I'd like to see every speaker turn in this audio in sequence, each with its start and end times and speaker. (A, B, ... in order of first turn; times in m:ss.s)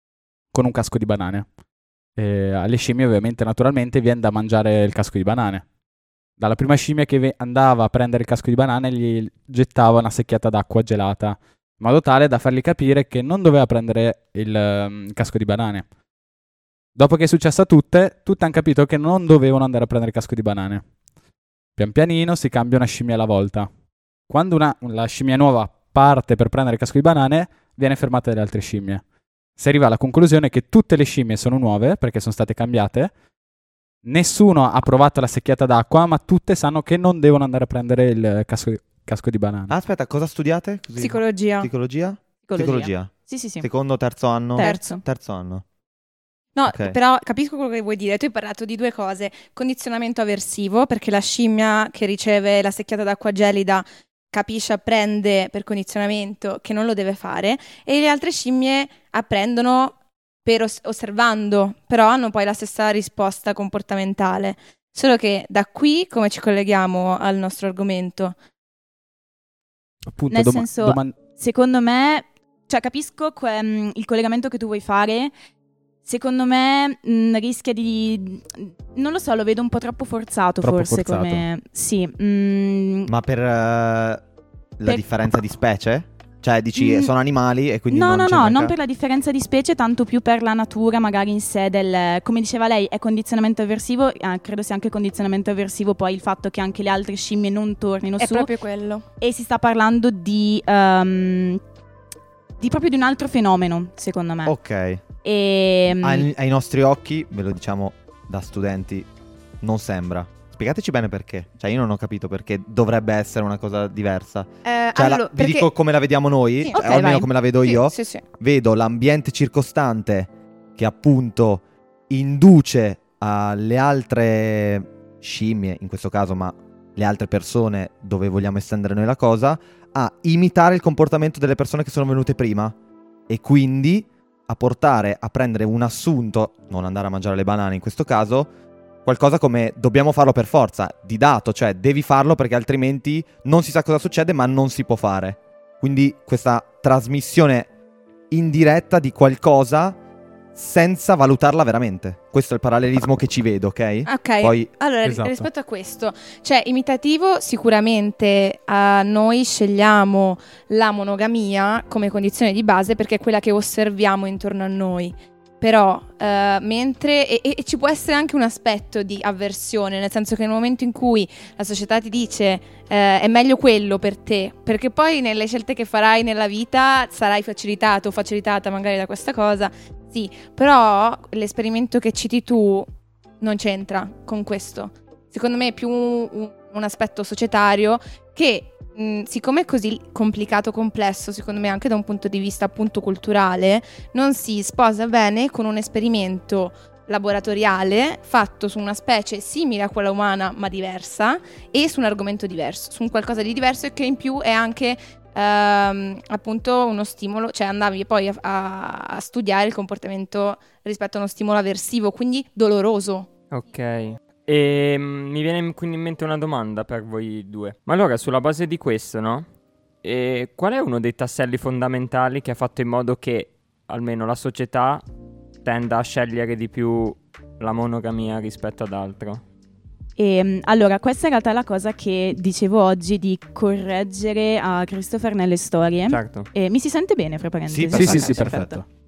0:00.5-0:01.5 A
0:02.2-0:05.7 A
0:06.4-0:15.9 A
0:17.0-0:20.9 A
0:21.8-0:23.7 A
0:24.3-0:29.0 A
0:29.6-0:33.1 A
0:34.0-0:39.7 A
0:39.7-0:45.6 B
0:41.0-0:41.7 C
0:42.5-0:43.7 D
0:44.6-0:45.0 D
0:44.6-0:45.0 C
0:46.6-1:08.4 C
0:46.7-0:47.0 B
1:10.1-1:11.2 A
1:10.3-1:15.3 D
1:16.0-1:23.1 D
1:20.6-1:21.5 A
1:23.1-1:24.2 B
1:24.8-1:28.8 B
1:26.8-1:27.1 D
1:27.9-1:38.5 D
1:38.2-1:39.0 C
1:39.2-1:41.6 D
1:42.6-1:44.6 D
1:44.5-1:45.0 B
1:45.2-1:46.3 D
1:46.0-1:49.1 B
1:49.6-2:12.7 B
1:54.6-1:55.7 C
1:56.6-1:58.2 C
1:56.7-1:57.2 D
2:13.3-2:18.5 B
2:19.0-2:27.7 B
2:28.3-2:30.0 B
2:30.5-2:34.7 B
2:34.1-3:02.9 C
2:35.0-2:35.5 A
3:03.4-3:33.3 C
3:33.5-3:39.5 E
3:40.0-3:45.0 E
3:45.6-3:49.4 E
3:50.2-3:58.8 D
3:56.1-3:56.5 E
3:57.7-3:58.8 B
3:57.9-3:58.8 A